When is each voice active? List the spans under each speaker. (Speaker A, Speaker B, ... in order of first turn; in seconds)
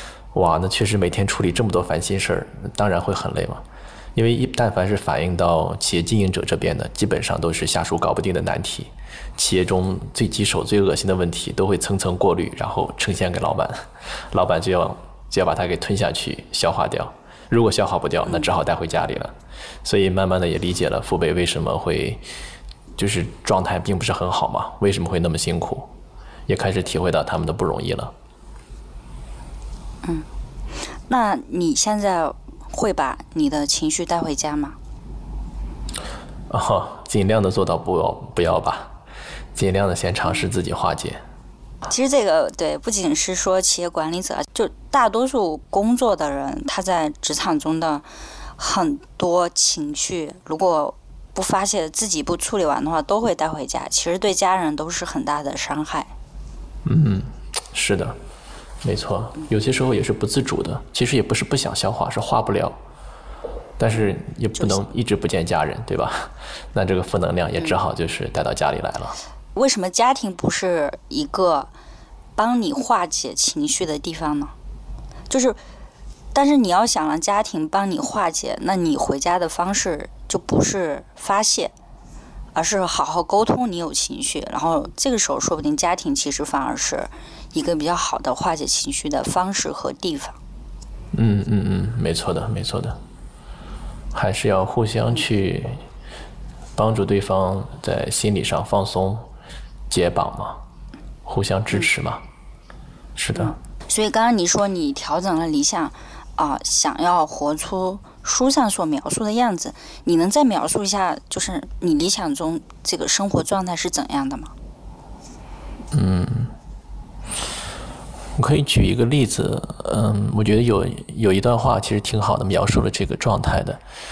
Speaker A: 0.3-3.6, 4.2-19.3, 19.8-22.2, 23.0-25.9, 26.5-28.1, 36.5-39.0, 39.5-41.2, 56.9-58.2, 58.8-62.8, 63.8-69.2, 91.1-93.0, 94.1-95.8, 96.8-99.3, 99.9-100.6, 101.3-102.2, 103.2-103.5, 115.9-116.5, 118.4-123.8
Speaker B: 31.1-34.8, 41.9-56.1, 69.5-71.7, 72.4-74.5, 75.3-75.6, 76.3-81.7, 82.5-90.4, 103.3-114.5